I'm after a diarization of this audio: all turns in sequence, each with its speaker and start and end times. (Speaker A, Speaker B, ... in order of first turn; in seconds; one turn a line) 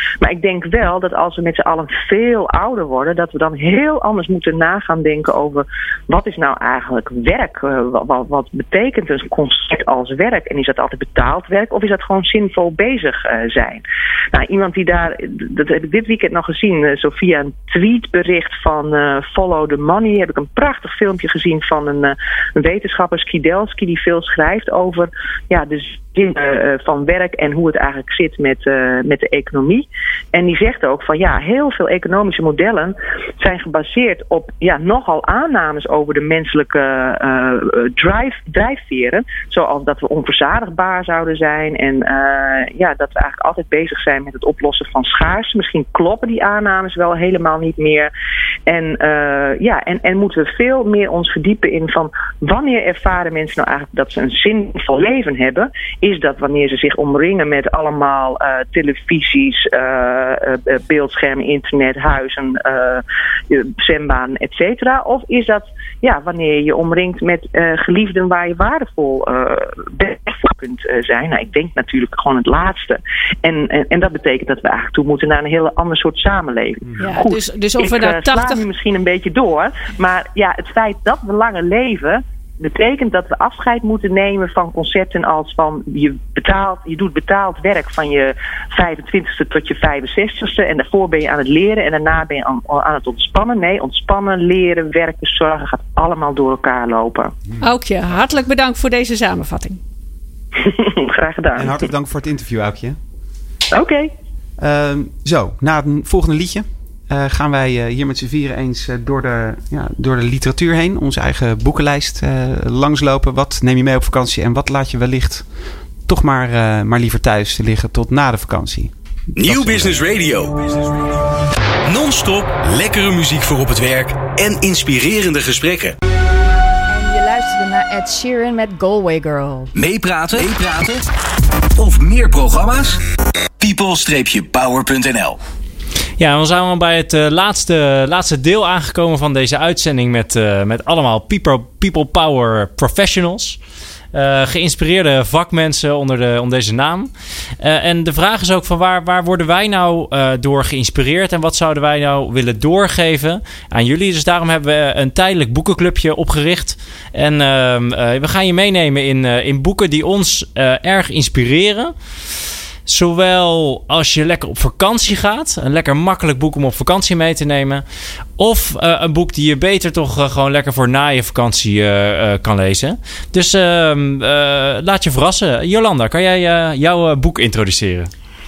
Speaker A: 0.2-48.1
Speaker A: 48.7-97.4
Speaker B: 77.0-78.7
Speaker B: 97.6-99.8
Speaker A: 100.6-101.8
Speaker C: 101.5-103.0
Speaker A: 103.7-104.1
Speaker C: 104.6-115.5
Speaker C: 116.1-120.0
Speaker D: 119.3-121.1
Speaker D: 121.8-126.0
Speaker E: 126.9-129.7
Speaker D: 129.8-131.0
Speaker D: 131.8-133.0
Speaker D: 133.6-135.4
Speaker F: 136.2-143.6
Speaker F: 144.1-161.9
Speaker F: 162.9-167.8
Speaker F: 168.4-178.1